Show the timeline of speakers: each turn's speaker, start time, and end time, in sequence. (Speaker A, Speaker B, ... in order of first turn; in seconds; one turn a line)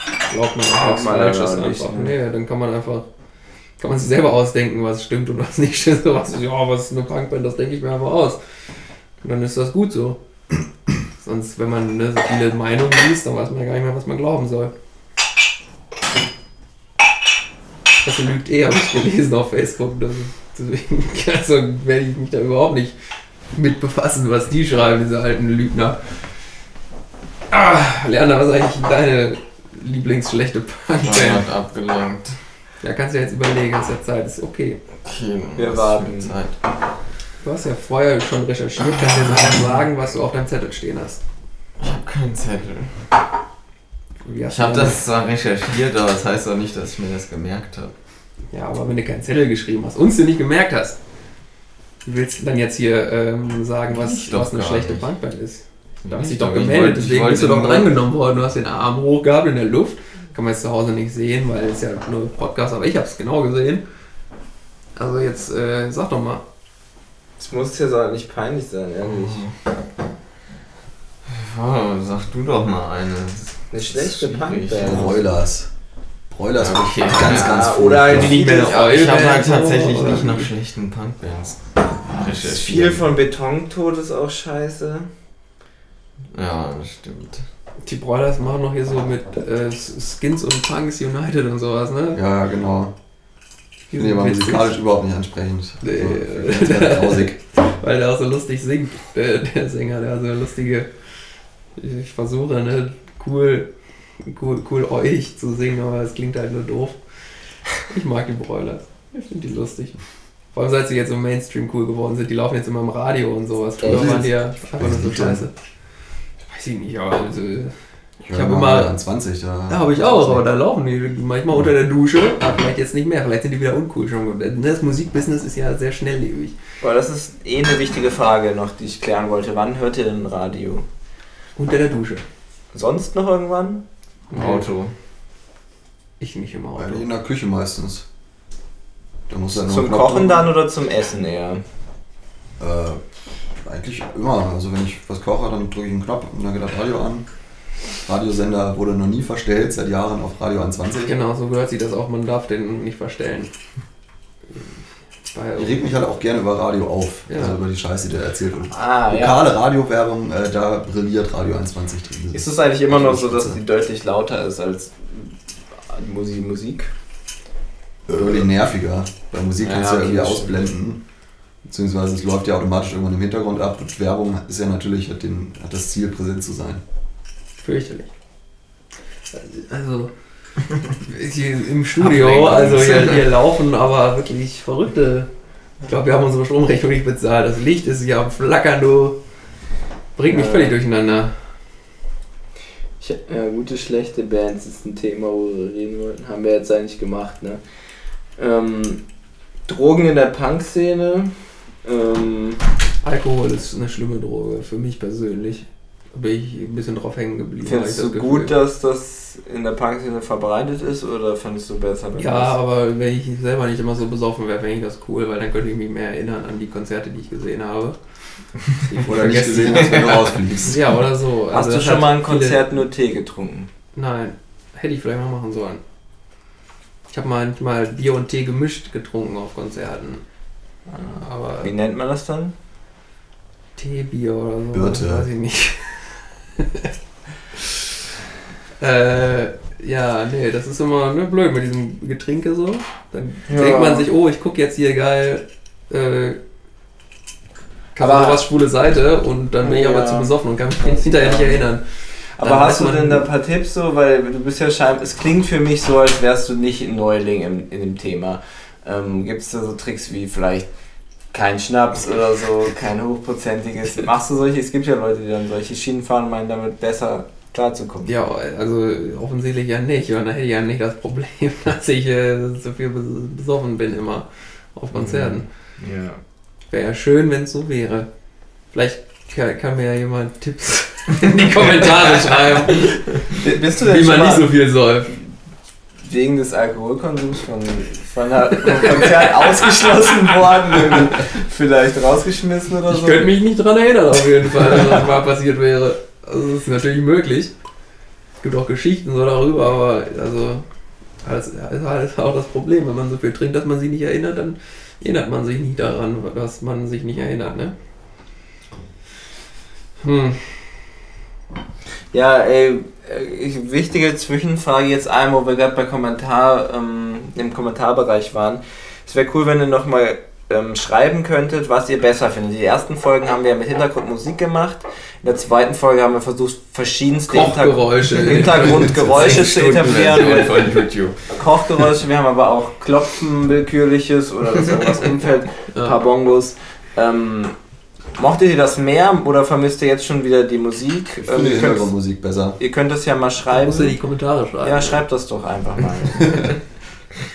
Speaker A: 0.3-3.0
Speaker B: 0.7-2.1
Speaker A: 3.8-8.4
Speaker A: 9.2-10.2
Speaker A: 11.2-14.7
Speaker A: 18.0-22.9
Speaker A: 23.5-26.0
Speaker A: 27.5-31.5
Speaker C: 31.1-32.4
Speaker A: 32.8-34.8
Speaker C: 35.0-36.6
Speaker B: 35.5-36.3
Speaker A: 37.4-41.2
Speaker C: 41.8-43.0
Speaker A: 44.2-45.0
Speaker C: 44.5-47.9
Speaker A: 48.5-51.0
Speaker A: 52.0-63.8
Speaker C: 53.9-55.0
Speaker C: 56.0-58.0
Speaker A: 64.9-66.4
Speaker B: 67.4-69.4
Speaker C: 69.0-69.5
Speaker C: 71.2-75.1
Speaker B: 73.7-75.2
Speaker D: 74.8-75.7
Speaker D: 76.3-78.4
Speaker C: 76.6-83.0
Speaker B: 77.2-78.9
Speaker A: 78.1-80.5
Speaker B: 82.4-85.1
Speaker C: 86.3-87.4
Speaker A: 87.8-92.2
Speaker D: 92.1-92.9
Speaker A: 93.9-94.8
Speaker D: 93.9-97.4
Speaker A: 95.8-100.9
Speaker A: 101.8-103.7
Speaker A: 104.2-107.0
Speaker A: 107.9-110.0
Speaker A: 110.5-115.5
Speaker D: 113.8-115.5
Speaker B: 113.8-114.2
Speaker A: 116.5-118.9
Speaker D: 118.2-120.4
Speaker A: 119.7-126.5
Speaker B: 126.8-130.8
Speaker A: 131.6-132.2
Speaker B: 132.7-134.9
Speaker A: 134.3-134.7
Speaker A: 136.2-137.1
Speaker D: 136.8-138.1
Speaker D: 139.3-140.5
Speaker B: 139.5-141.6
Speaker D: 142.6-143.0
Speaker D: 143.6-147.2
Speaker D: 148.0-151.2
Speaker A: 151.0-153.5
Speaker A: 155.3-155.9
Speaker D: 155.6-163.6
Speaker A: 157.3-157.6
Speaker B: 158.7-159.4
Speaker B: 162.3-165.3
Speaker B: 165.9-166.9
Speaker D: 168.1-171.0
Speaker B: 169.6-170.7
Speaker D: 171.6-176.8
Speaker A: 177.6-178.1
Speaker A: 179.3-180.1
Speaker A: 181.0-185.3
Speaker B: 182.2-183.2
Speaker A: 185.8-189.2
Speaker A: 190.2-191.3
Speaker B: 190.3-190.8
Speaker B: 193.0-197.6
Speaker B: 198.4-199.0
Speaker B: 199.7-201.3
Speaker B: 201.8-202.6
Speaker A: 203.0-208.5
Speaker B: 207.6-212.6
Speaker A: 212.2-217.9
Speaker A: 218.9-222.6
Speaker D: 219.0-220.9
Speaker B: 221.5-223.7
Speaker A: 223.9-225.8
Speaker A: 227.1-230.2
Speaker B: 230.9-232.5
Speaker A: 231.1-231.7
Speaker A: 233.8-236.9
Speaker D: 234.7-235.3
Speaker A: 238.8-246.4
Speaker B: 243.5-244.1
Speaker A: 247.9-251.8
Speaker B: 248.0-248.4
Speaker B: 249.6-251.7
Speaker B: 252.4-260.7
Speaker A: 252.4-253.3
Speaker B: 261.3-268.1
Speaker A: 268.1-275.5
Speaker B: 274.9-276.2
Speaker A: 276.7-278.1
Speaker A: 278.7-285.2
Speaker B: 283.2-284.5
Speaker B: 286.0-293.3
Speaker A: 288.6-290.3
Speaker A: 292.9-297.5
Speaker A: 298.4-300.6
Speaker A: 301.2-307.7
Speaker A: 310.0-310.5
Speaker B: 312.1-337.5
Speaker A: 327.3-330.9
Speaker C: 329.2-331.1
Speaker B: 338.1-341.9
Speaker D: 341.3-342.6
Speaker B: 342.6-344.0
Speaker A: 343.5-345.0
Speaker B: 344.6-346.6